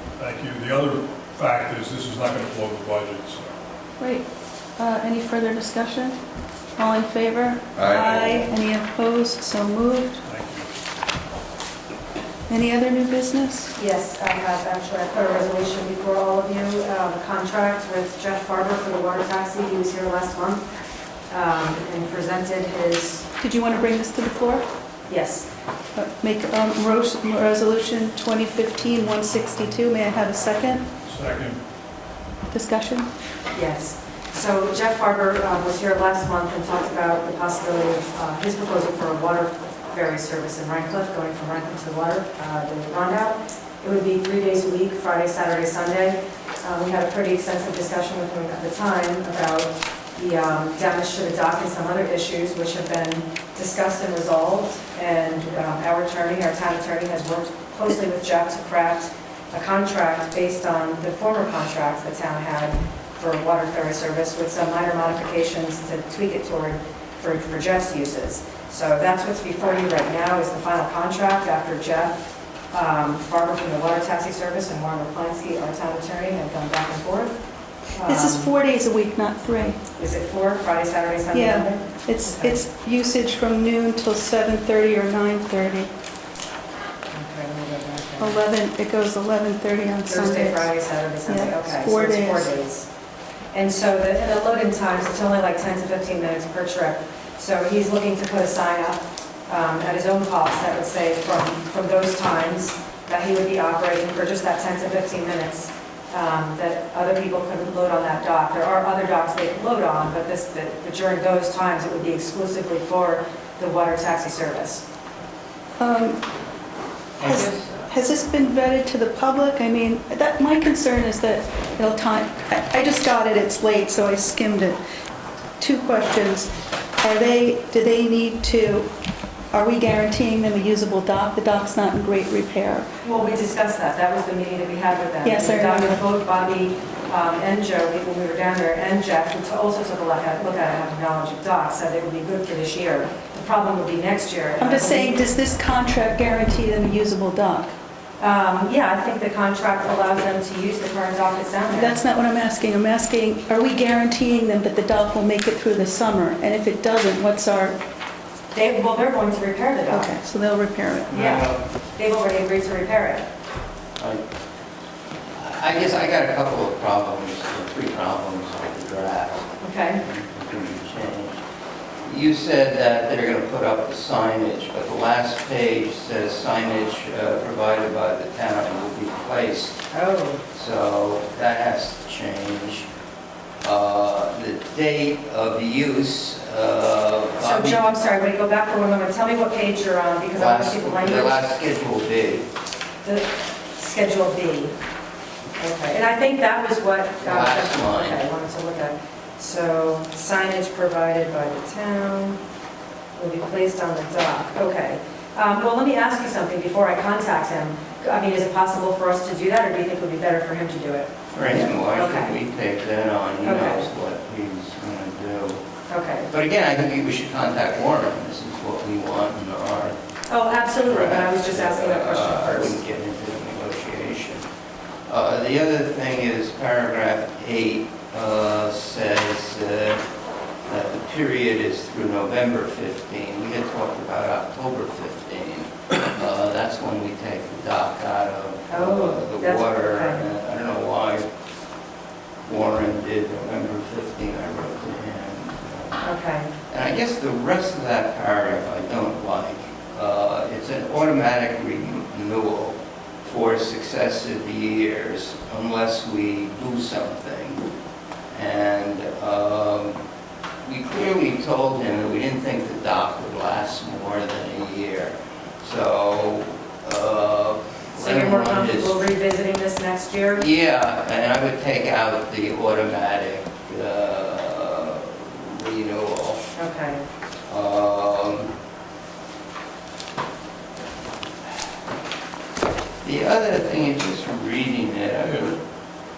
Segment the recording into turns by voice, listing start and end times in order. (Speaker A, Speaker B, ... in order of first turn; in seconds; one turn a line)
Speaker A: 0.2-3.5
Speaker B: 4.0-4.2
Speaker B: 4.8-6.2
Speaker B: 6.8-10.2
Speaker C: 7.8-8.5
Speaker A: 10.2-10.7
Speaker B: 12.5-13.7
Speaker D: 13.8-20.6
Speaker D: 21.3-23.2
Speaker B: 23.4-24.7
Speaker D: 25.1-25.5
Speaker B: 25.9-30.9
Speaker A: 31.0-31.6
Speaker B: 32.5-33.1
Speaker D: 33.5-72.2
Speaker D: 72.7-77.3
Speaker D: 77.9-78.5
Speaker B: 78.1-79.8
Speaker D: 80.0-82.6
Speaker B: 81.3-85.9
Speaker D: 87.1-88.4
Speaker B: 88.2-90.7
Speaker D: 90.1-92.9
Speaker B: 91.2-92.5
Speaker D: 93.5-114.8
Speaker B: 115.8-116.2
Speaker C: 117.2-117.9
Speaker B: 117.2-124.8
Speaker B: 125.6-126.5
Speaker B: 127.0-128.9
Speaker B: 129.5-132.9
Speaker D: 133.0-145.3
Speaker B: 135.2-136.0
Speaker B: 144.6-147.7
Speaker D: 148.2-152.0
Speaker B: 151.7-157.8
Speaker D: 158.5-160.2
Speaker B: 159.9-161.1
Speaker C: 161.1-161.6
Speaker D: 161.1-163.2
Speaker C: 165.3-171.4
Speaker D: 169.6-170.0
Speaker C: 172.0-179.8
Speaker D: 179.9-180.4
Speaker C: 180.5-182.9
Speaker C: 183.6-187.8
Speaker D: 187.4-191.4
Speaker C: 190.3-192.5
Speaker D: 193.0-194.8
Speaker D: 195.6-202.4
Speaker C: 197.2-198.2
Speaker D: 203.2-211.1
Speaker C: 211.3-215.6
Speaker D: 211.8-212.3
Speaker D: 213.4-213.9
Speaker D: 215.9-216.3
Speaker C: 216.3-219.9
Speaker D: 220.3-222.8
Speaker C: 220.8-224.4
Speaker C: 225.1-230.0
Speaker C: 230.7-241.2
Speaker D: 238.7-240.2
Speaker C: 242.4-246.1
Speaker D: 246.0-246.5
Speaker C: 246.7-257.6
Speaker C: 258.3-260.0
Speaker C: 260.6-269.0
Speaker D: 267.9-270.4
Speaker C: 270.4-276.4
Speaker D: 276.6-277.0
Speaker C: 277.5-278.5
Speaker C: 283.0-285.6
Speaker A: 285.2-285.5